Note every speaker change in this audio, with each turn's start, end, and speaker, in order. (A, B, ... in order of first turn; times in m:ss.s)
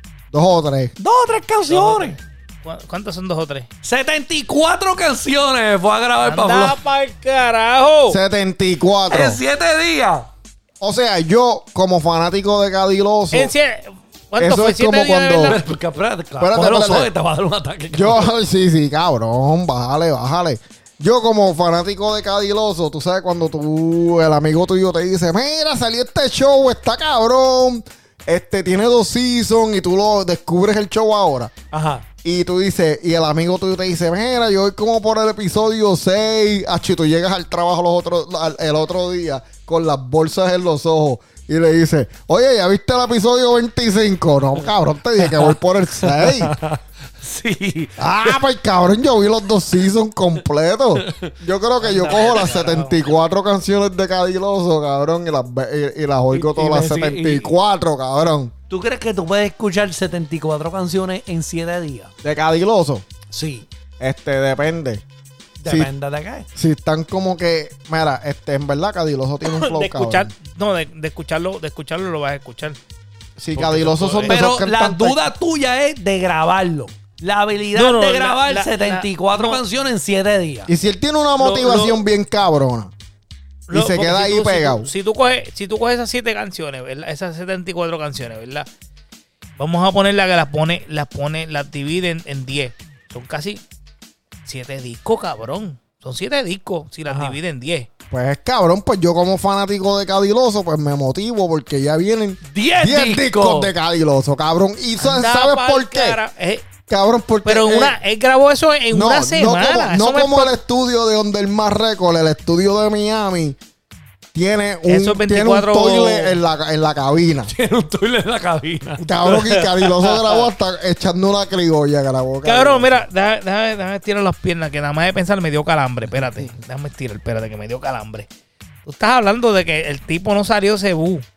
0:00.3-0:00.9 A
0:01.0-0:02.2 B
0:01.7-0:03.7 C
0:03.8-0:06.8 B
0:06.2-0:08.2 C
0:08.1-0:09.4 A
0:09.1-0:10.3 B
0:10.8-0:13.5 A
0:13.3-0:15.6 C
0:14.4-0:15.6 A
0:15.4-0:18.3 B
0:16.4-0:17.1 A
0:17.9-0:31.5 A
0:31.7-0:32.0 B
0:32.2-0:46.5 A
0:45.2-0:48.3 B
0:48.0-0:58.5 A
0:51.0-0:51.3 B
0:51.8-0:52.9 B
0:51.9-0:52.9 C
0:56.3-0:57.5 B
0:58.7-1:02.1 B
1:02.2-1:03.0 A
1:03.3-1:03.7 B
1:04.0-1:05.0 A
1:05.6-1:06.5 B
1:05.6-1:05.9 A
1:06.6-1:10.3 A
1:09.5-1:12.8 C
1:13.4-1:15.2 A
1:13.5-1:14.4 C
1:14.2-1:20.7 B
1:17.7-1:19.6 C
1:20.7-1:22.9 A
1:21.4-1:22.0 C
1:23.7-1:28.7 C
1:23.7-1:24.9 A
1:29.6-1:33.6 C
1:34.4-1:37.9 C
1:37.1-1:37.4 B
1:38.1-1:46.2 A
1:42.4-1:43.7 B
1:45.0-1:46.7 C
1:46.9-1:48.0 A
1:47.4-1:50.6 C
1:48.9-1:53.6 A
1:54.3-1:57.5 A
1:54.8-1:56.4 C
1:57.4-1:59.0 B
1:59.0-2:03.0 A
1:59.2-2:00.5 C
2:02.4-2:08.3 C
2:08.8-2:11.2 C